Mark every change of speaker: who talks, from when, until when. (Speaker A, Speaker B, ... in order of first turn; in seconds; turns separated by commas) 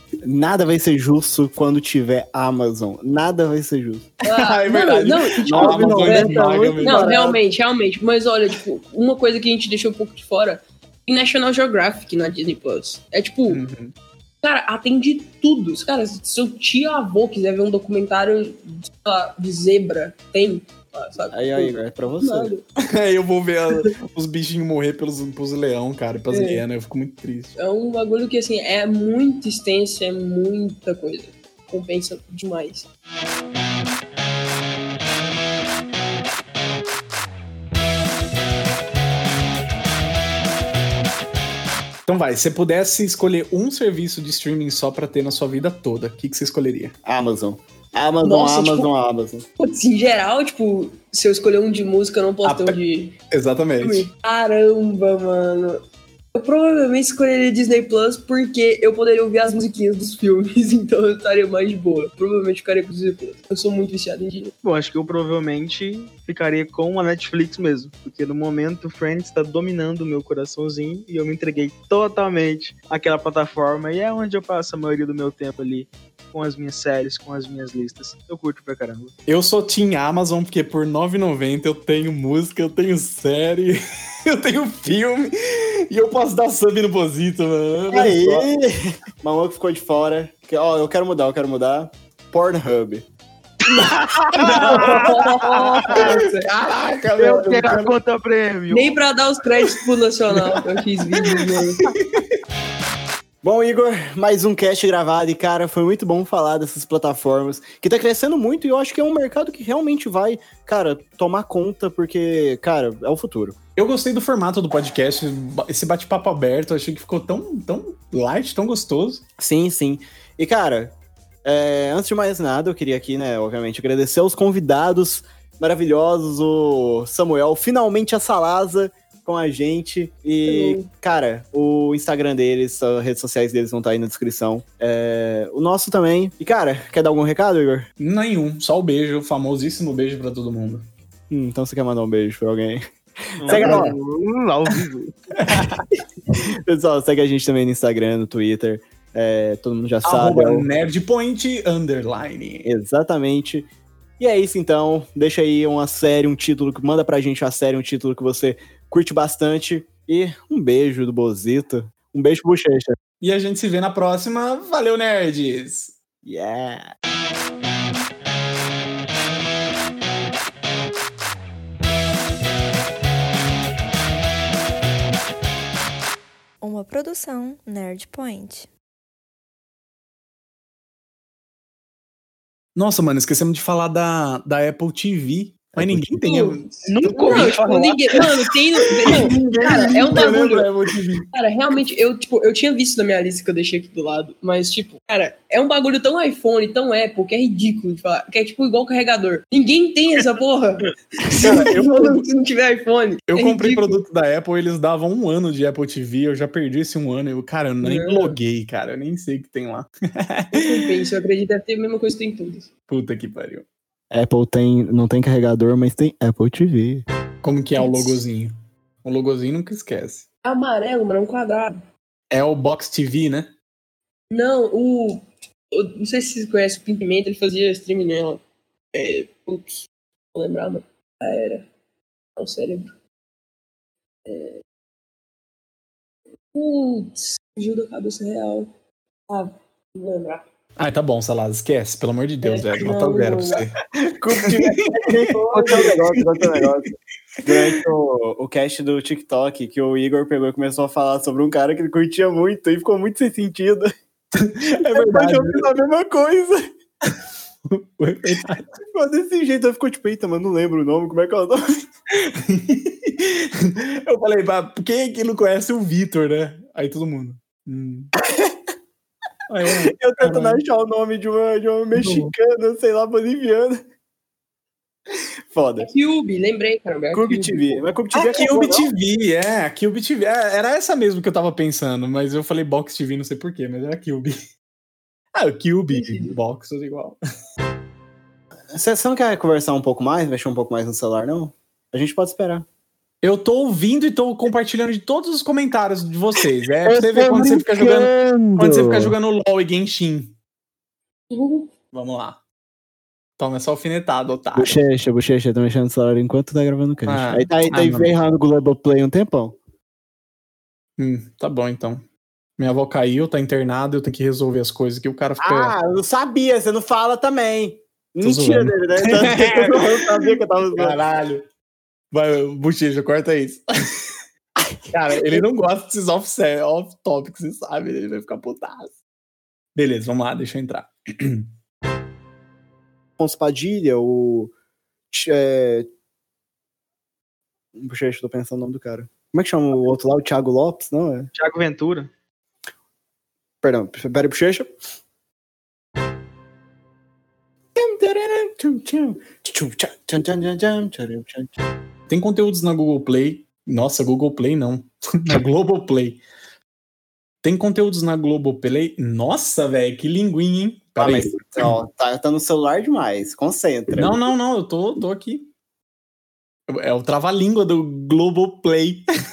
Speaker A: 0.2-4.1, Speaker B: 4.2-13.6, Speaker C: 4.3-7.2, Speaker A: 5.5-7.4, Speaker C: 13.5-13.9, Speaker B: 14.4-22.6, Speaker A: 21.3-22.5, Speaker C: 22.9-27.5, Speaker B: 26.3-26.6, Speaker B: 27.6-32.9, Speaker C: 42.1-46.9, Speaker A: 47.0-49.4, Speaker B: 48.2-48.9, Speaker B: 49.6-53.2, Speaker C: 52.4-52.8, Speaker C: 53.3-54.1, Speaker B: 53.8-55.8, Speaker B: 56.3-64.5, Speaker D: 64.6-79.1, Speaker C: 79.2-88.5, Speaker A: 87.9-93.0, Speaker C: 93.7-95.1, Speaker D: 93.7-96.1, Speaker B: 94.4-96.5, Speaker C: 95.9-97.8, Speaker D: 97.2-99.0, Speaker A: 97.5-97.8, Speaker B: 98.7-101.9, Speaker C: 100.3-100.6, Speaker C: 101.9-102.2, Speaker A: 103.4-113.5, Speaker C: 113.8-119.2, Speaker A: 119.4-120.9, Speaker A: 121.4-137.9, Speaker B: 130.5-130.9, Speaker C: 138.0-140.8, Speaker A: 141.3-143.9, Speaker D: 143.4-145.1, Speaker C: 143.5-143.9, Speaker C: 145.4-145.8, Speaker A: 146.7-150.7, Speaker C: 150.0-152.7, Speaker A: 152.6-162.9, Speaker C: 163.2-165.9, Speaker A: 166.2-166.9, Speaker E: 176.6-178.7, Speaker C: 182.7-187.6, Speaker A: 185.7-186.2, Speaker B: 186.2-190.7, Speaker D: 186.9-188.2, Speaker C: 189.0-191.3, Speaker B: 191.3-204.0, Speaker C: 201.3-202.3, Speaker C: 203.3-210.8, Speaker B: 207.8-208.3, Speaker B: 210.5-212.7, Speaker C: 212.9-213.7, Speaker A: 214.1-217.0, Speaker C: 217.4-220.3, Speaker B: 217.8-218.2, Speaker B: 220.4-221.8, Speaker C: 222.3-223.5, Speaker B: 224.3-231.7, Speaker B: 232.3-232.9, Speaker B: 234.2-234.6, Speaker B: 236.5-238.7, Speaker B: 239.3-240.4, Speaker C: 240.8-243.8, Speaker B: 242.4-243.6, Speaker A: 243.9-246.9, Speaker C: 244.3-246.7, Speaker C: 247.4-247.8, Speaker A: 247.4-253.9, Speaker C: 254.3-255.7, Speaker A: 254.7-256.6, Speaker C: 257.7-258.6, Speaker A: 258.9-261.8, Speaker C: 262.1-268.1, Speaker A: 268.3-268.5, Speaker C: 269.5-270.6, Speaker A: 269.9-273.8, Speaker D: 271.9-272.3, Speaker A: 275.1-275.9, Speaker B: 275.8-277.8, Speaker A: 277.1-278.9, Speaker C: 278.1-284.3, Speaker C: 285.3-287.2, Speaker B: 285.9-286.4, Speaker A: 288.7-292.6, Speaker C: 293.2-300.3, Speaker A: 296.8-299.1, Speaker B: 301.3-301.7, Speaker C: 301.9-302.4, Speaker C: 303.4-304.8, Speaker A: 304.6-309.6, Speaker C: 307.1-308.1, Speaker C: 311.0-312.0, Speaker C: 312.6-315.7, Speaker A: 315.4-321.0, Speaker C: 318.2-321.4, Speaker C: 322.1-323.6, Speaker C: 324.9-328.9, Speaker C: 329.7-331.5, Speaker A: 333.2-334.5, Speaker A: 335.1-335.9, Speaker A: 337.7-341.3, Speaker D: 341.3-342.1, Speaker A: 343.6-344.8, Speaker A: 347.8-351.5, Speaker C: 352.1-356.2, Speaker C: 357.4-361.7, Speaker A: 361.0-364.3, Speaker C: 363.9-365.5, Speaker C: 366.7-369.0